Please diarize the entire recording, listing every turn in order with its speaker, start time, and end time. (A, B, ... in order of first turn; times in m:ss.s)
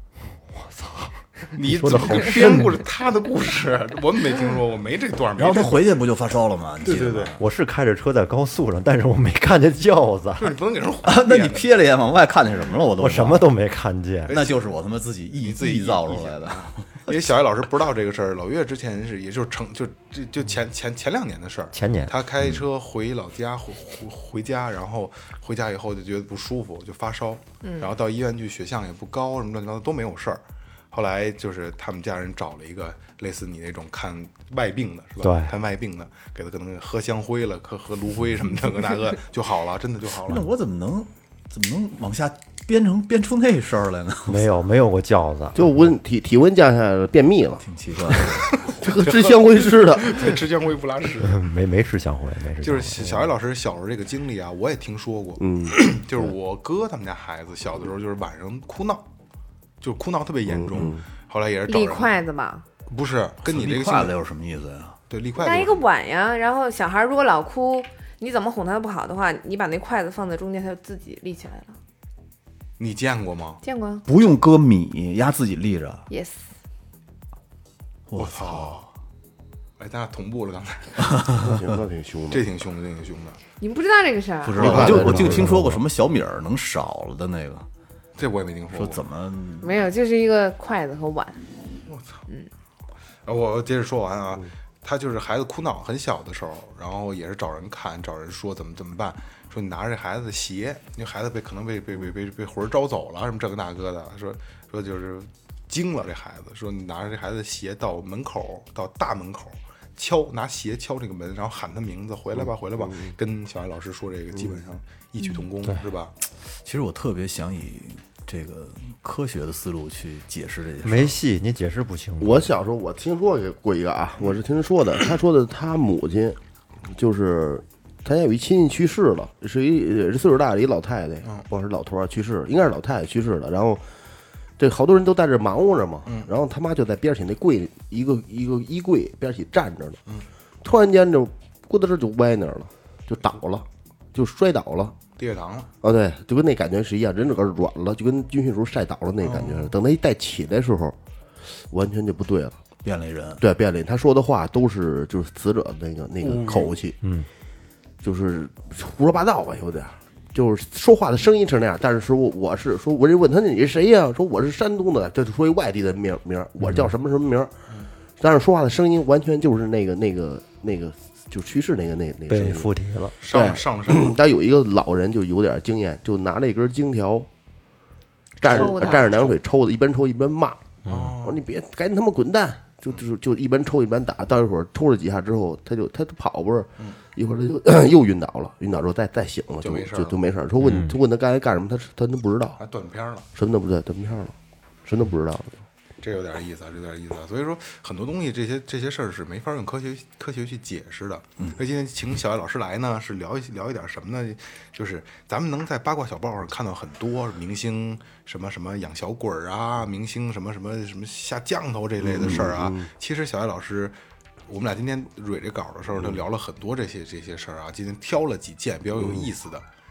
0:00.5-0:02.8 A
0:01.5-0:05.8 B
0:05.4-0:07.4 C
0:06.8-0:07.3 B
0:07.4-0:10.6 A
0:10.4-0:11.6 B
0:11.0-0:13.5 C
0:13.0-0:14.4 A
0:14.3-0:14.6 B
0:14.3-0:17.0 C
0:15.3-0:40.4 B
0:21.7-0:22.1 A
0:27.6-0:27.9 D
0:35.2-0:35.5 A
0:40.2-0:44.4 C
0:44.3-0:45.6 A
0:45.5-0:47.6 E
0:47.6-0:48.5 C
0:48.1-0:51.4 B
0:48.8-0:50.2 E
0:51.2-0:53.3 A
0:52.6-0:59.0 B
0:55.4-0:56.3 E
0:59.8-1:02.2 B
1:00.5-1:01.0 E
1:01.7-1:02.6 D
1:02.9-1:04.1 B
1:03.4-1:05.0 C
1:05.1-1:05.8 B
1:05.4-1:11.8 D
1:12.8-1:13.6 B
1:13.6-1:14.0 D
1:14.0-1:16.0 C
1:16.1-1:16.5 D
1:18.1-1:18.9 C
1:18.1-1:18.8 B
1:19.8-1:21.2 B
1:21.1-1:21.6 C
1:21.3-1:22.5 E
1:22.3-1:23.4 B
1:23.6-1:24.7 D
1:24.4-1:27.6 C
1:24.6-1:25.7 E
1:24.6-1:25.5 B
1:28.2-1:29.0 B
1:28.7-1:29.8 C
1:29.6-1:31.4 D
1:31.8-1:32.2 B
1:33.2-1:56.1 B
1:52.8-1:53.1 E
1:56.5-2:01.2 C
2:00.8-2:02.5 A
2:02.2-2:13.8 E
2:14.6-2:20.0 E
2:20.6-2:24.9 E
2:25.2-2:25.7 B
2:25.8-2:31.0 E
2:29.2-2:29.7 B
2:31.5-2:32.6 E
2:32.8-2:33.4 C
2:33.4-2:37.0 E
2:36.2-2:36.7 B
2:37.0-2:37.3 A
2:38.0-2:47.5 E
2:46.6-2:46.9 A
2:48.2-2:52.7 E
2:52.3-2:53.1 A
2:53.2-2:54.1 B
2:53.3-2:57.3 E
2:58.4-3:12.6 E
2:58.5-2:59.1 D
2:58.5-2:59.4 B
3:00.8-3:01.4 B
3:00.8-3:01.1 A
3:09.6-3:10.2 B
3:10.6-3:11.0 A
3:12.6-3:13.2 B
3:13.3-3:14.3 E
3:14.8-3:15.6 E
3:16.0-3:33.9 B
3:32.1-3:32.9 E
3:34.5-3:39.6 B
3:39.0-3:39.3 E